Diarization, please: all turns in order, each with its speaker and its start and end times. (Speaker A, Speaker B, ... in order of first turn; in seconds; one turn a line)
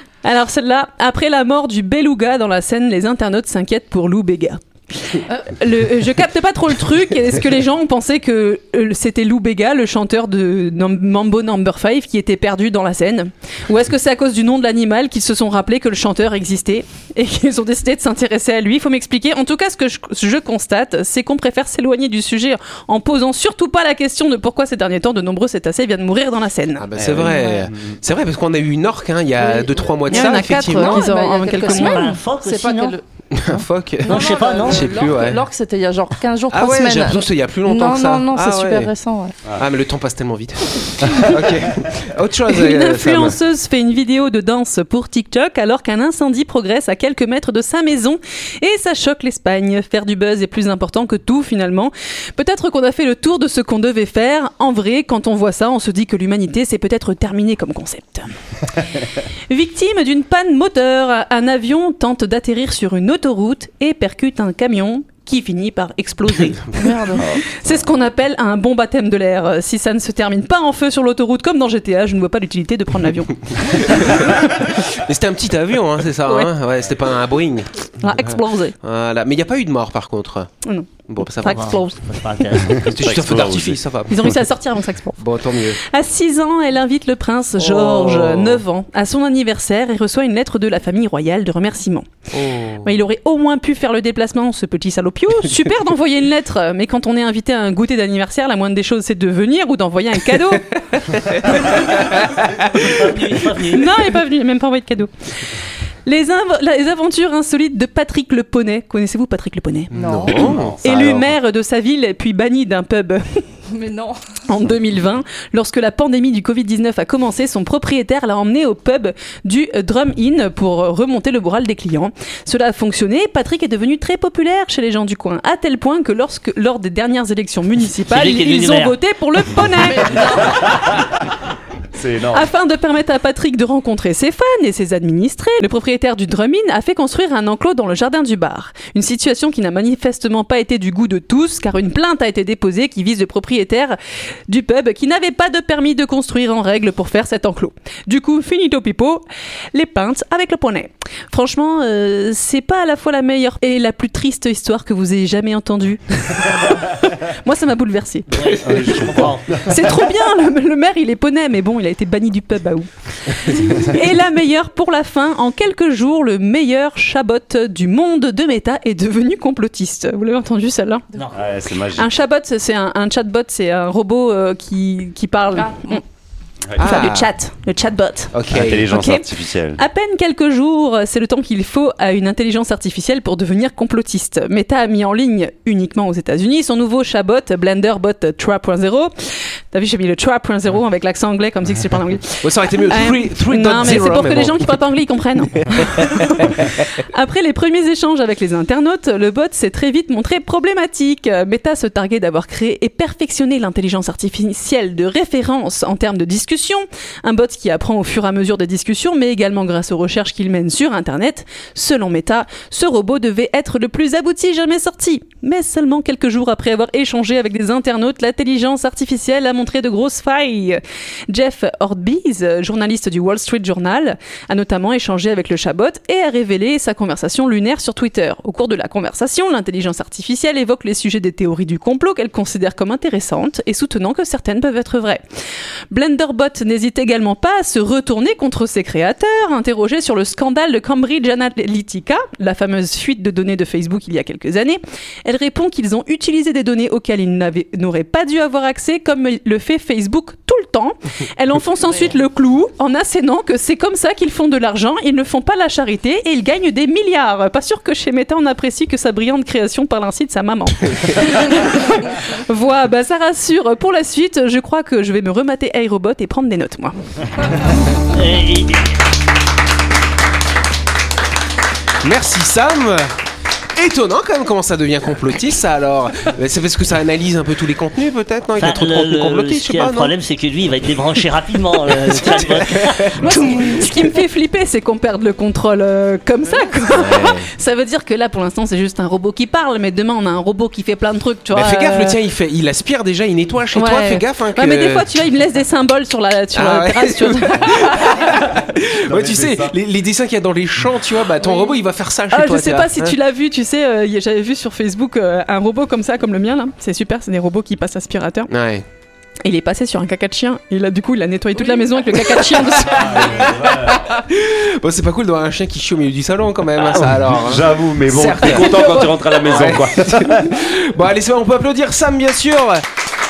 Speaker A: 0.2-26.8
Speaker B: 26.8-31.1
Speaker C: 26.9-27.9
Speaker D: 27.3-27.7
Speaker D: 29.4-39.4
Speaker A: 30.1-32.1
Speaker E: 31.7-33.0
Speaker B: 33.3-35.4
Speaker E: 34.1-35.1
Speaker B: 36.5-38.9
Speaker B: 39.5-43.4
Speaker A: 42.5-58.3
Speaker A: 59.5-66.8
Speaker D: 66.8-67.2
Speaker C: 67.2-67.7
Speaker A: 67.5-74.2
Speaker B: 73.7-80.5
Speaker A: 76.2-76.5
Speaker A: 78.0-78.8
Speaker A: 80.6-80.9
Speaker B: 81.1-81.8
Speaker A: 81.4-82.0
Speaker E: 81.4-83.0
Speaker C: 82.8-84.3
Speaker B: 82.9-84.2
Speaker A: 84.1-85.2
Speaker B: 85.2-85.8
Speaker A: 85.8-92.1
Speaker B: 87.6-88.6
Speaker B: 92.3-92.9
Speaker A: 92.8-100.8
Speaker B: 101.2-101.5
Speaker E: 101.5-103.9
Speaker B: 102.1-102.4
Speaker A: 103.7-105.1
Speaker A: 106.0-109.9
Speaker B: 109.9-110.8
Speaker D: 109.9-110.4
Speaker C: 110.1-111.3
Speaker A: 110.8-113.4
Speaker D: 113.7-114.2
Speaker A: 114.5-130.3
Speaker E: 128.1-128.9
Speaker D: 129.7-130.7
Speaker C: 131.9-132.5
Speaker A: 132.3-144.0
Speaker A: 144.5-171.0
Speaker E: 158.3-159.6
Speaker C: 158.7-159.7
Speaker E: 171.1-171.4
Speaker C: 171.3-172.1
Speaker A: 172.0-176.0
Speaker D: 175.6-176.0
Speaker B: 176.8-177.3
Speaker A: 176.8-178.3
Speaker B: 178.3-178.9
Speaker C: 178.5-179.8
Speaker A: 178.9-189.1
Speaker A: 189.7-235.2
Speaker B: 192.4-194.8
Speaker B: 195.7-196.7
Speaker A: 235.9-266.9
Speaker E: 268.1-268.9
Speaker B: 272.0-273.1
Speaker B: 273.8-280.1
Speaker E: 278.6-283.8
Speaker B: 281.9-283.6
Speaker A: 283.2-292.2
Speaker B: 286.9-287.5
Speaker B: 291.5-295.1
Speaker A: 293.7-298.4
Speaker B: 296.5-303.1
Speaker C: 299.1-299.7
Speaker A: 302.3-308.5
Speaker B: 308.5-308.8
Speaker A: 309.4-313.4
Speaker B: 312.1-322.8
Speaker C: 312.8-314.0
Speaker C: 316.8-320.5